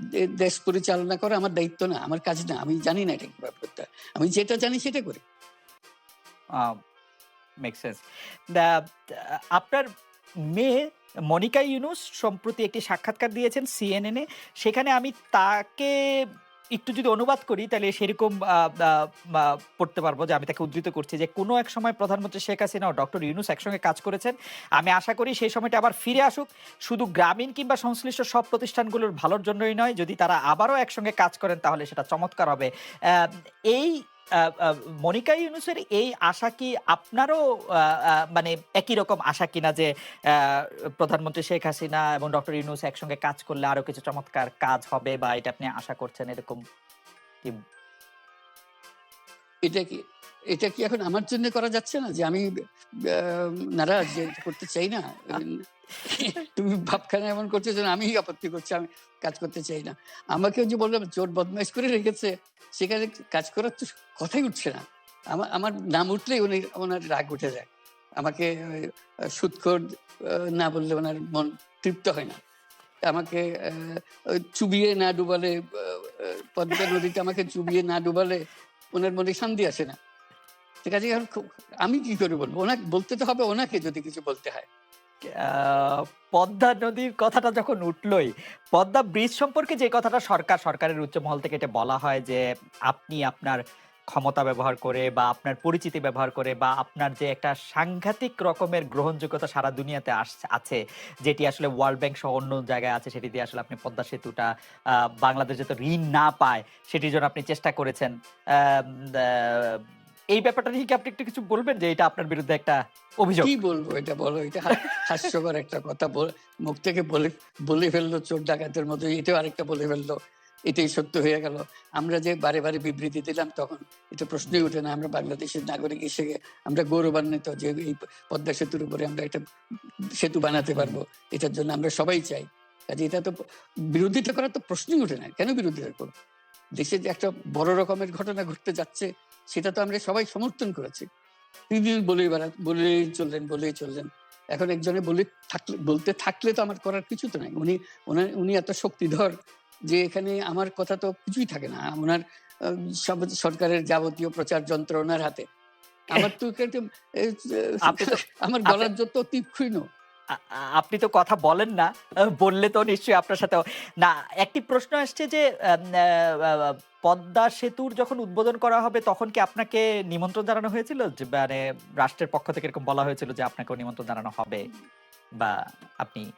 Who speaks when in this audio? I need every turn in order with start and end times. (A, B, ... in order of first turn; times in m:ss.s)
0:00.2-0:05.2 A
0:07.6-0:09.8 B
0:10.5-0:15.9 B
0:16.7-0:46.6 B
0:49.6-0:50.0 A
0:50.5-0:52.5 A
0:53.1-1:08.8 A
1:09.3-1:12.4 A
1:13.1-1:14.0 A
1:14.5-1:18.4 A
1:18.9-1:20.0 A
1:20.8-1:24.7 A
1:25.3-1:33.6 B
1:34.1-1:44.5 B
1:45.2-1:49.8 B
1:50.3-1:53.6 B
1:53.4-2:00.2 A
1:54.7-1:55.0 B
2:00.7-2:09.4 A
2:10.2-2:13.3 A
2:13.9-2:16.1 A
2:16.8-2:21.0 A
2:21.7-2:29.3 A
2:29.9-2:35.4 A
2:36.1-2:39.8 A
2:37.9-2:38.9 B
2:40.3-2:54.6 B
2:55.4-2:56.2 B